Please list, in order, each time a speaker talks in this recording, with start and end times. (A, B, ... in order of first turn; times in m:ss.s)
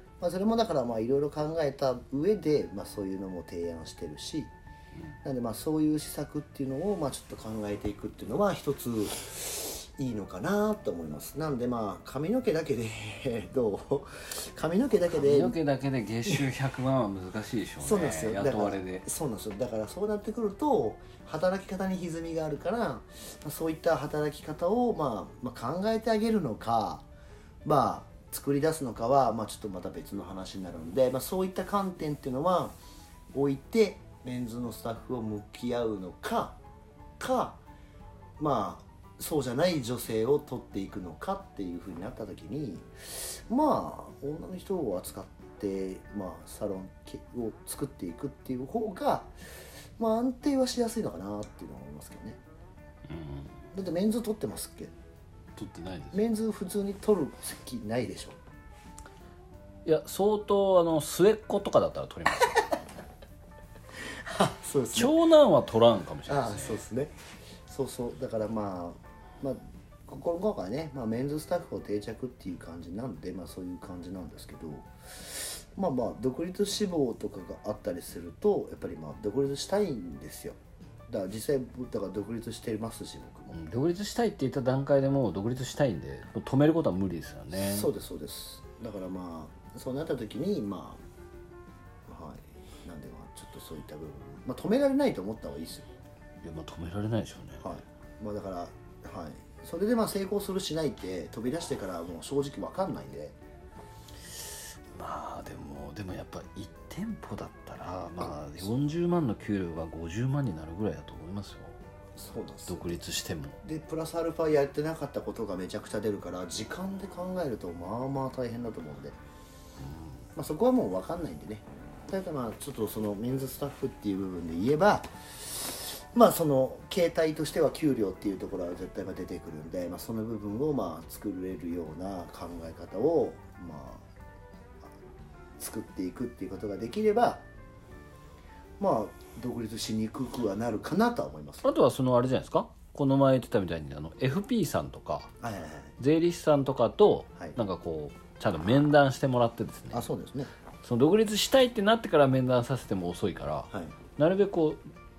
0:00.2-0:04.5 A
0:05.2-0:15.6 A
0:15.1-0:19.0 B
0:17.8-0:27.1 A
0:27.6-0:32.8 A
0:33.3-0:36.6 A
0:37.2-0:37.6 A
0:38.4-0:49.3 A
0:50.0-0:52.4 A
0:53.1-0:53.6 B
0:53.7-0:54.9 A
0:55.6-0:56.2 B
0:56.1-0:58.4 A
0:59.8-1:02.8 B
1:04.1-1:05.2 A
1:04.9-1:06.8 B
1:06.3-1:07.1 A
1:07.7-1:23.6 A
1:23.5-1:27.9 B
1:27.6-1:31.0 A
1:32.1-1:35.9 A
1:36.4-1:37.7 B
1:37.6-1:43.4 A
1:44.3-1:51.8 B
1:48.2-1:48.7 A
1:52.2-1:53.0 A
1:52.7-1:53.6 B
1:53.6-1:59.2 A
2:00.4-2:14.1 A
2:15.6-2:17.4 A
2:18.8-2:21.7 A
2:21.6-2:25.3 B
2:25.4-2:26.0 A
2:26.0-2:30.0 B
2:29.9-2:30.5 A
2:30.8-2:34.8 B
2:33.7-2:34.0 A